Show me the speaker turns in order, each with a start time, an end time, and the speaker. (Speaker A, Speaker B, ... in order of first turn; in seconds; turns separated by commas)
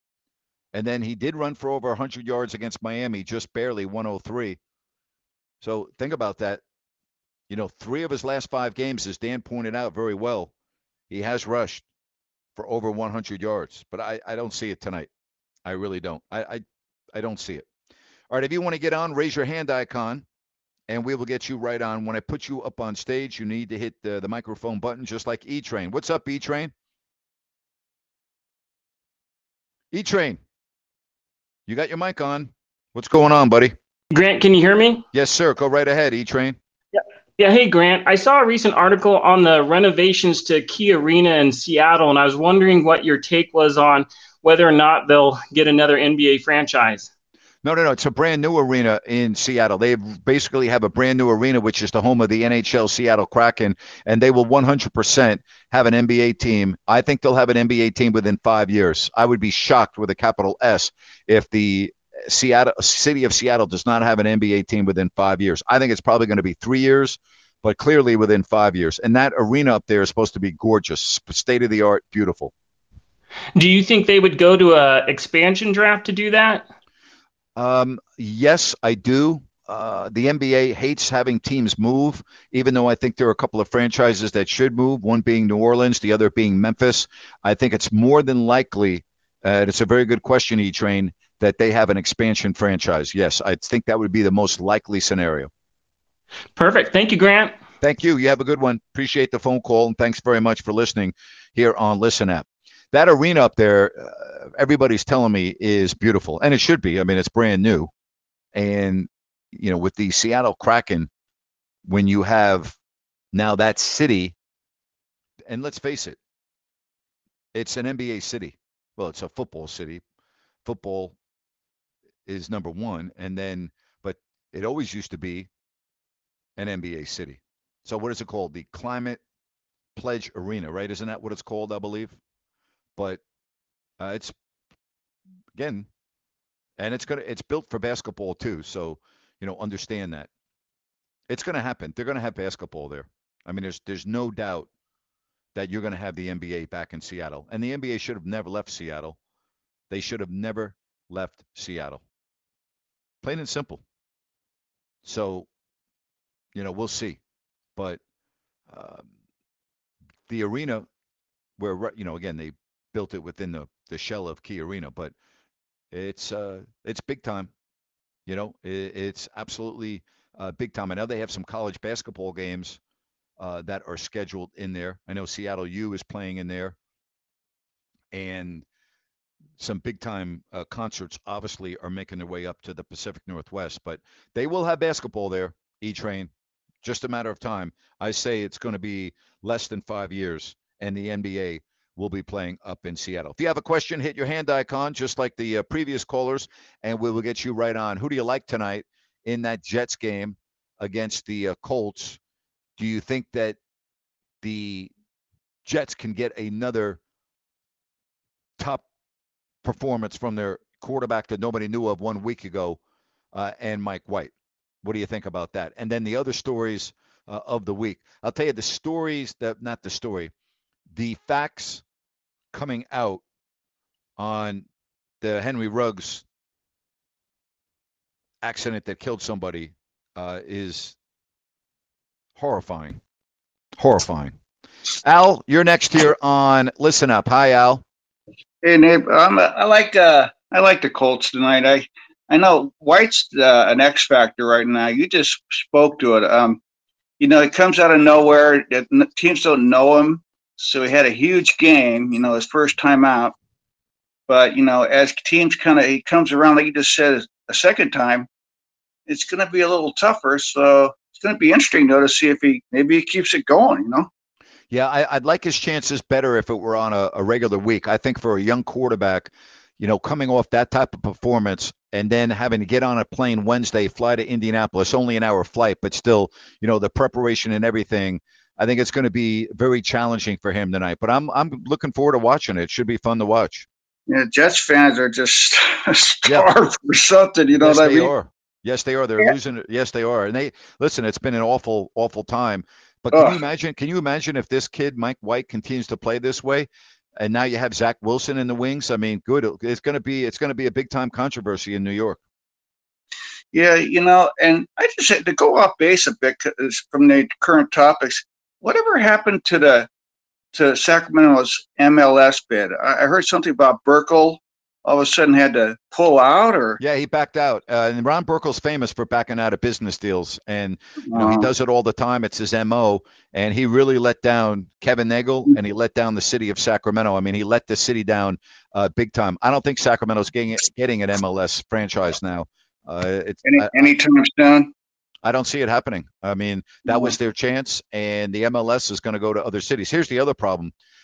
Speaker A: 0.7-4.6, Speaker A: 5.6-6.6, Speaker A: 7.5-10.5, Speaker A: 11.1-11.8, Speaker A: 12.6-15.1, Speaker A: 15.7-17.6, Speaker A: 18.3-20.2, Speaker A: 20.9-26.7, Speaker A: 29.9-30.4, Speaker A: 31.7-33.7, Speaker B: 34.1-35.0, Speaker A: 35.1-36.6, Speaker B: 37.0-47.1, Speaker A: 47.6-72.5, Speaker B: 73.5-76.7, Speaker A: 77.5-95.5, Speaker B: 96.5-97.5, Speaker A: 97.8-107.9, Speaker A: 108.5-111.1, Speaker A: 111.9-112.8, Speaker A: 113.3-114.3, Speaker A: 115.5-116.2, Speaker A: 117.5-120.0, Speaker A: 120.6-121.1, Speaker A: 122.2-125.5, Speaker A: 126.6-129.2, Speaker A: 129.9-132.2, Speaker A: 134.0-134.3, Speaker A: 135.6-135.9, Speaker A: 136.8-140.3, Speaker A: 141.3-144.7, Speaker A: 145.5-149.2, Speaker A: 149.9-152.0, Speaker A: 153.2-153.8, Speaker A: 155.0-155.5, Speaker A: 156.5-157.2, Speaker A: 158.7-159.1, Speaker A: 160.3-160.8, Speaker A: 161.6-165.1, Speaker A: 165.9-167.5, Speaker A: 168.3-172.8, Speaker A: 173.4-176.8, Speaker A: 178.1-178.6, Speaker A: 179.6-186.3, Speaker A: 186.8-202.2, Speaker A: 202.8-203.6, Speaker A: 204.4-204.9, Speaker A: 205.6-207.0, Speaker A: 208.6-208.8, Speaker A: 209.6-212.8, Speaker A: 213.3-214.3, Speaker A: 214.8-220.3, Speaker A: 220.9-221.8, Speaker A: 222.5-223.2, Speaker A: 224.2-224.6, Speaker A: 225.2-226.2, Speaker A: 228.4-230.9, Speaker A: 232.4-233.0, Speaker A: 233.8-234.3, Speaker A: 235.0-237.8, Speaker C: 238.6-246.6, Speaker C: 247.2-253.3, Speaker C: 254.3-258.3, Speaker C: 259.1-264.1, Speaker A: 264.7-283.6, Speaker C: 284.1-288.1, Speaker A: 287.6-296.7, Speaker C: 293.1-293.4, Speaker A: 297.2-302.2, Speaker C: 303.5-309.9, Speaker C: 310.5-316.8, Speaker A: 316.8-333.9, Speaker C: 321.1-321.5, Speaker C: 333.4-334.7, Speaker A: 335.2-340.7